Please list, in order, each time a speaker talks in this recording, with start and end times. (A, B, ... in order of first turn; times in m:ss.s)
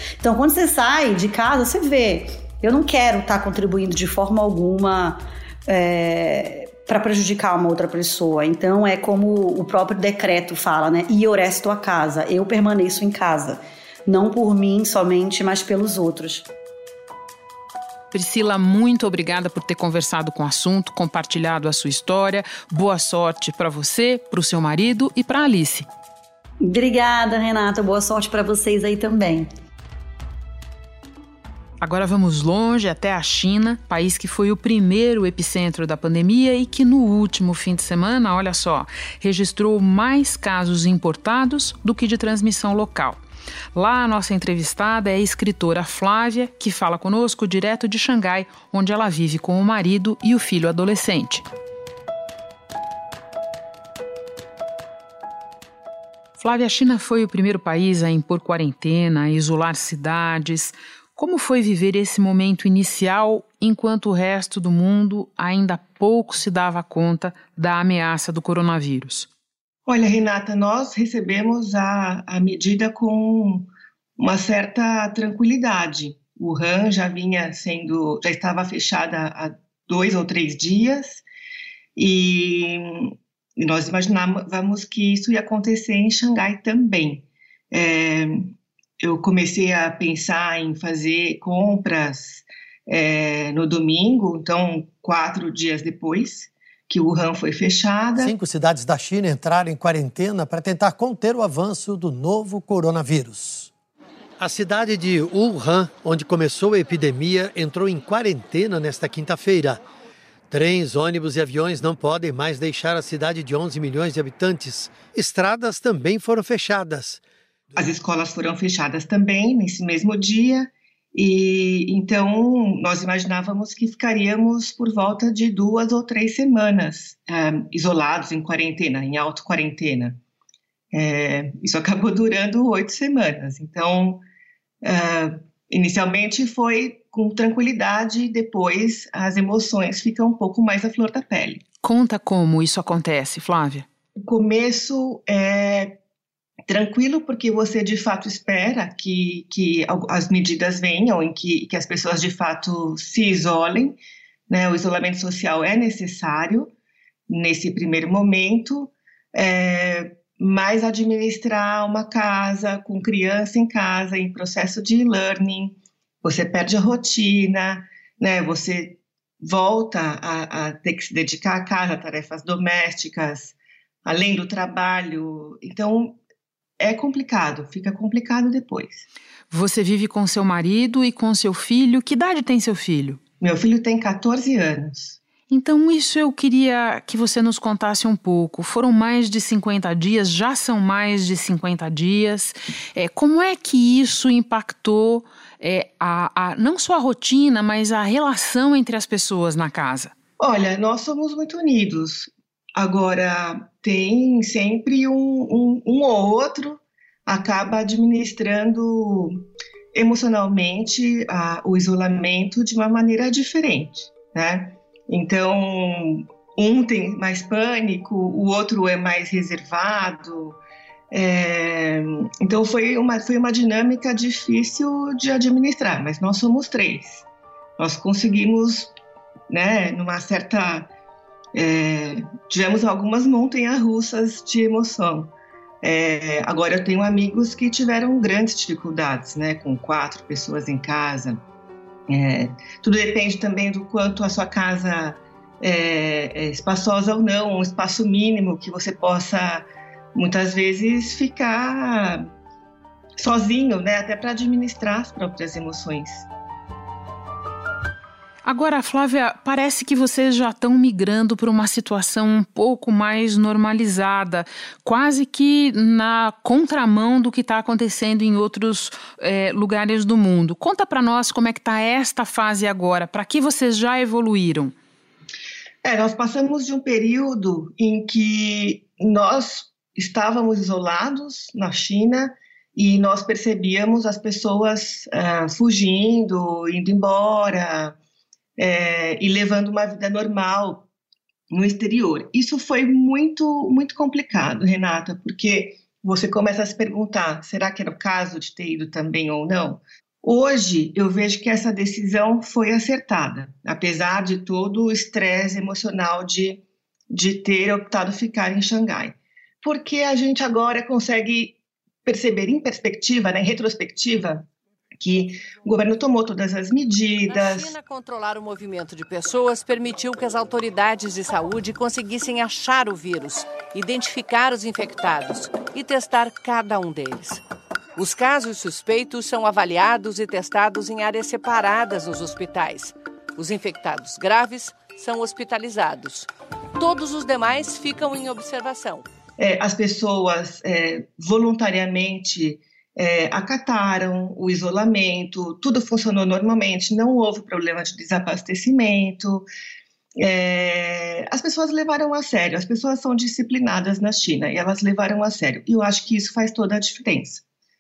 0:00.2-0:16.5 A
0:18.1-0:25.9 B
0:26.6-0:29.5 A
0:31.8-0:43.2 B
0:43.8-0:51.5 B
0:56.4-1:09.3 B
1:09.9-1:21.2 C
1:22.0-1:38.3 C
1:38.2-1:43.7 D
1:44.4-1:49.8 D
1:50.5-1:57.2 D
1:57.8-2:10.2 C
2:10.9-2:14.2 C
2:14.8-2:21.6 C
2:21.8-2:23.9 B
2:24.2-2:26.0 C
2:26.7-2:34.0 C
2:34.5-2:36.7 C
2:37.3-2:56.2 C
2:56.8-2:59.1 C
2:59.5-3:03.2 B
3:03.4-3:05.2 C
3:05.5-3:20.1 B
3:20.4-3:40.6 C
3:41.1-3:47.3 C
3:47.8-3:48.9 C
3:49.5-3:50.9 C
3:51.5-4:01.4 C
4:02.1-4:12.3 C
4:13.2-4:16.3 C
4:18.4-4:34.7 B
4:35.8-4:48.0 C
4:48.6-4:50.9 C
4:51.5-5:17.7 C
5:17.3-5:27.4 E
5:28.0-5:39.1 E
5:39.4-5:49.5 C
5:50.2-5:57.4 C